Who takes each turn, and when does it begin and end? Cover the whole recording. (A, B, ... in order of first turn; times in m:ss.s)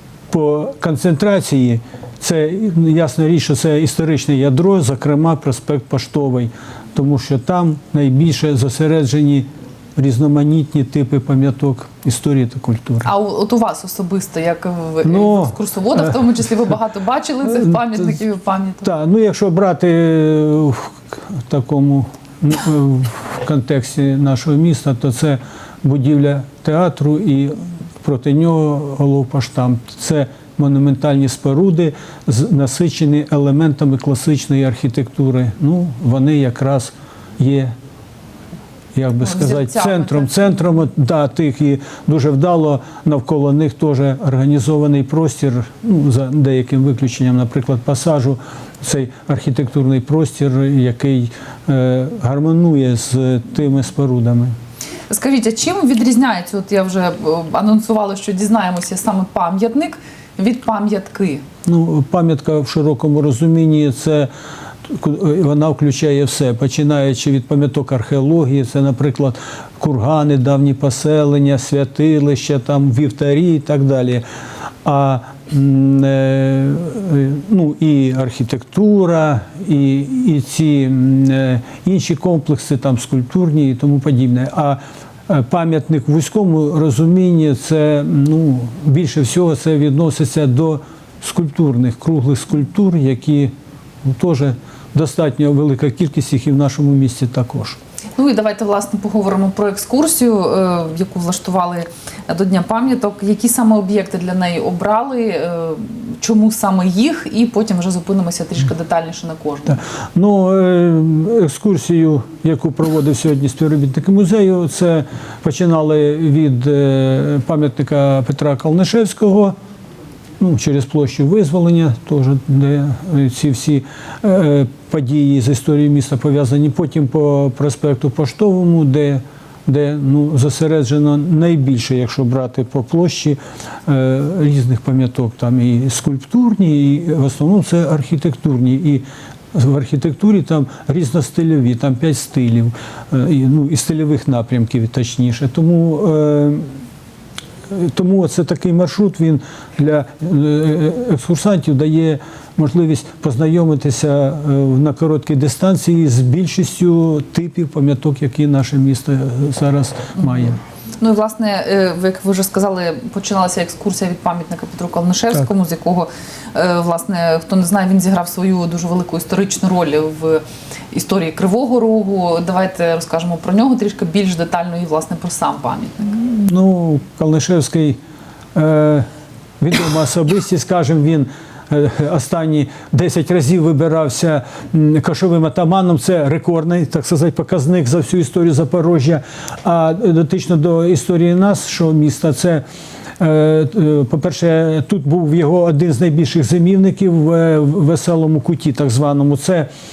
0:00.3-0:13.1 A
0:13.0-0:18.9 B
0:15.0-0:16.2 A
0:17.4-0:18.2 A
0:18.8-0:37.7 A
0:38.9-0:54.5 A
0:39.2-0:40.4 B
0:55.1-1:01.4 B
1:01.6-1:04.3 A
1:04.8-1:14.2 A
1:14.8-1:33.5 A
1:34.0-1:37.8 A
1:38.2-1:49.8 B
1:49.7-1:59.5 A
2:00.4-2:26.7 A
2:27.7-2:40.6 A
2:41.0-2:56.1 B
2:56.0-2:58.0 A
2:58.5-2:59.0 A
2:59.6-3:12.6 A
3:13.2-3:19.7 A